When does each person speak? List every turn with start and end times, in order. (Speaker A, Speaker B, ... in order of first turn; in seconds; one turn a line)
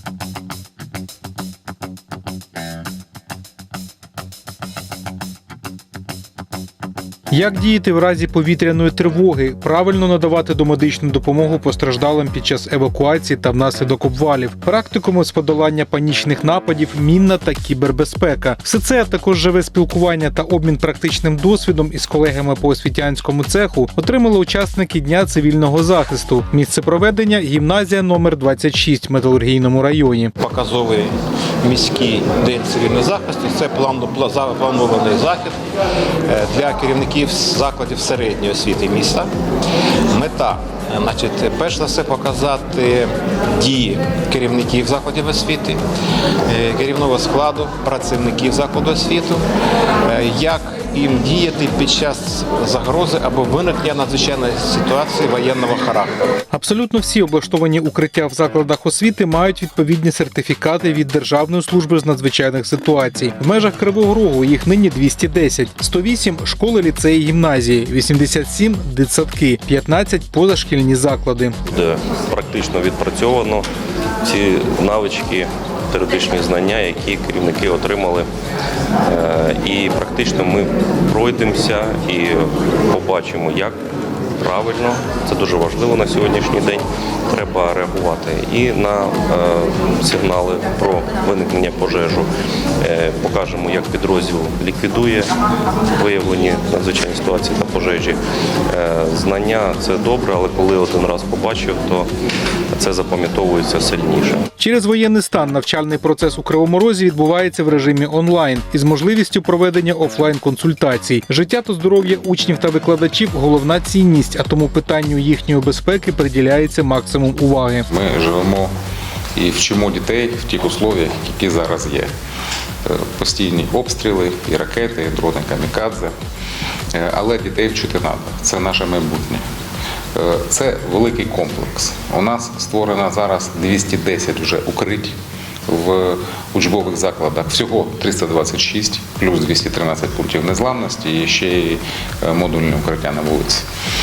Speaker A: 7.3-30.3
Speaker B: 30.4-35.6
Speaker B: 36.3-39.3
Speaker B: 40.1-45.8
Speaker B: 46.5-49.4
Speaker B: 50.0-56.2
Speaker A: 56.5-71.6
Speaker C: 71.7-73.7
Speaker C: 74.2-78.3
Speaker C: 79.0-83.8
Speaker C: 84.4-92.3
Speaker C: 92.8-95.3
Speaker C: 95.9-102.1
Speaker C: 102.7-104.5
Speaker A: 104.6-117.9
Speaker D: 117.9-118.7
Speaker D: 119.4-122.1
Speaker D: 122.9-126.1
Speaker D: 126.9-129.4
Speaker D: 130.2-143.7